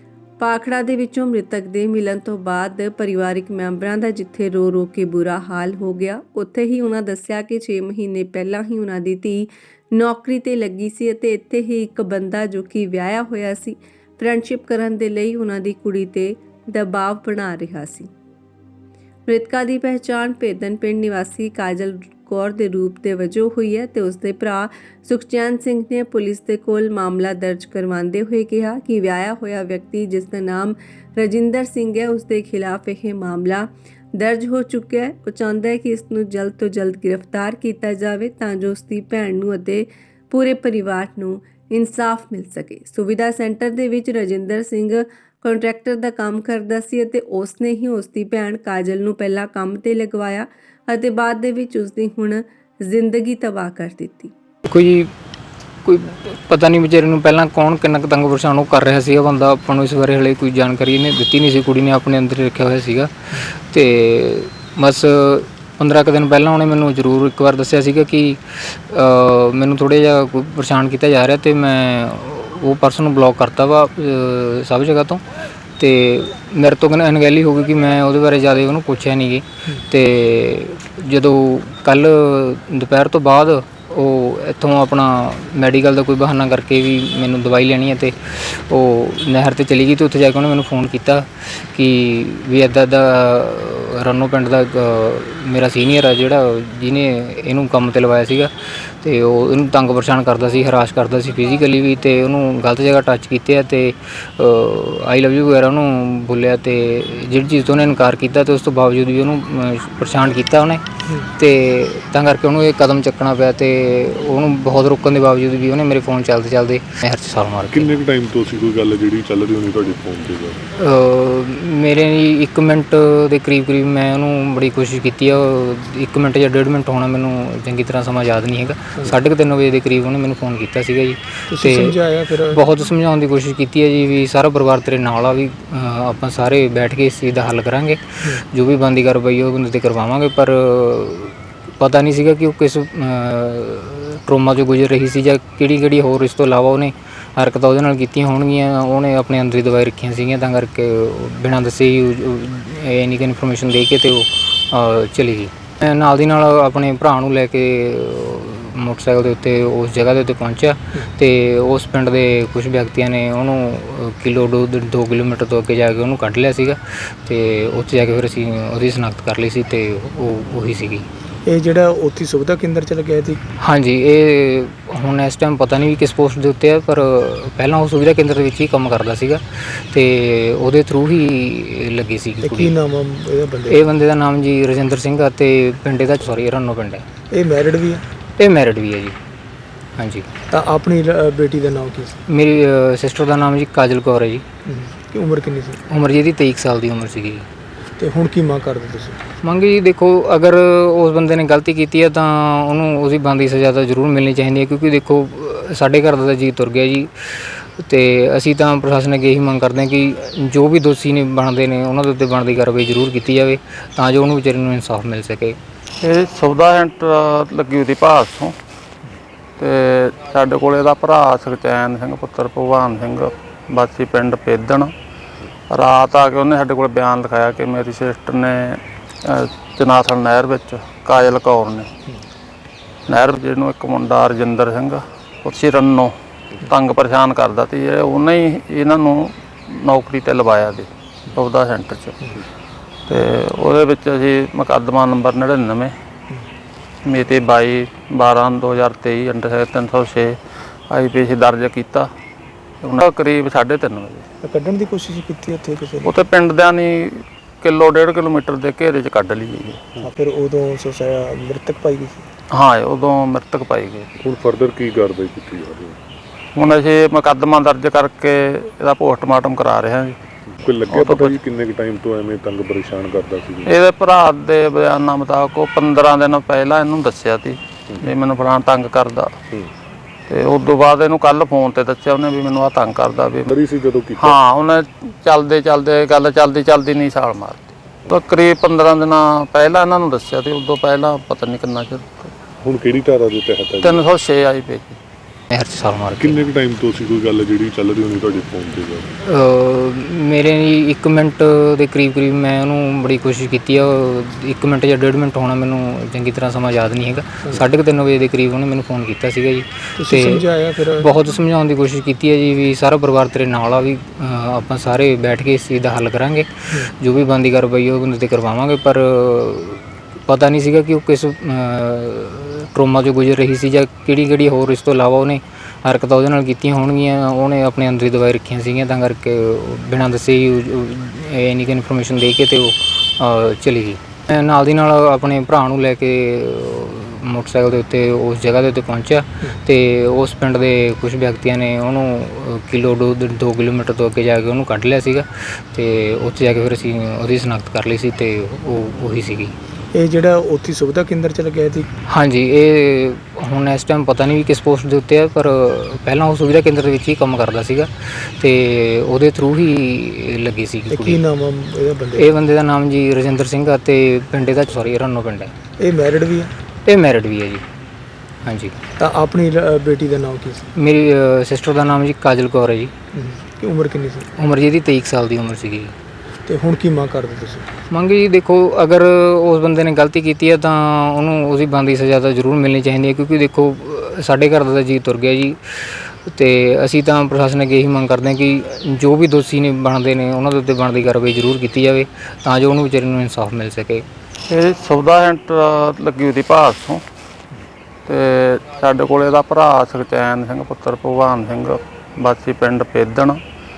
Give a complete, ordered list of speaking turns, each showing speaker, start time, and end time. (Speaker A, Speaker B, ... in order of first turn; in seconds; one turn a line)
Speaker A: 0.4-18.1
Speaker A: 19.3-54.3
Speaker B: 54.6-55.1
Speaker B: 55.8-75.2
Speaker B: 75.8-117.9
Speaker C: 117.7-120.6
Speaker B: 120.7-171.1
Speaker D: 131.5-132.7
Speaker D: 171.4-173.4
Speaker B: 173.6-182.7
Speaker D: 182.4-183.8
Speaker B: 183.7-187.1
Speaker D: 187.3-188.0
Speaker B: 188.4-189.2
Speaker B: 190.0-190.3
Speaker D: 190.5-192.2
Speaker B: 192.3-194.4
Speaker D: 194.6-195.8
Speaker B: 195.9-197.5
Speaker D: 198.0-199.2
Speaker B: 199.4-215.6
Speaker E: 216.0-218.5
Speaker E: 219.6-224.9
Speaker E: 225.7-231.9
Speaker E: 233.1-242.3
Speaker E: 243.1-245.9
Speaker E: 247.0-250.4
Speaker E: 250.9-252.1
Speaker E: 252.8-254.3
Speaker D: 254.4-256.2
Speaker E: 256.0-259.9
Speaker D: 260.0-262.3
Speaker E: 262.5-264.1
Speaker C: 264.2-266.0
Speaker E: 266.6-270.2
Speaker C: 270.5-273.7
Speaker E: 270.9-271.4
Speaker E: 273.6-279.4
Speaker E: 280.3-283.5
Speaker C: 283.5-284.4
Speaker E: 284.2-292.3
Speaker C: 292.6-294.0
Speaker E: 293.8-295.0
Speaker B: 295.5-296.4
Speaker C: 296.2-299.1
Speaker B: 299.2-349.5
Speaker D: 310.0-311.1
Speaker D: 349.9-351.9
Speaker B: 352.1-361.2
Speaker D: 360.9-362.4
Speaker B: 362.2-365.5
Speaker D: 365.8-366.5
Speaker B: 366.9-367.6
Speaker B: 368.4-368.8
Speaker D: 369.0-370.7
Speaker B: 370.8-372.9
Speaker D: 373.1-374.3
Speaker B: 374.4-375.9
Speaker D: 376.4-377.7
Speaker B: 377.9-394.1
Speaker E: 394.5-397.0
Speaker E: 398.1-403.4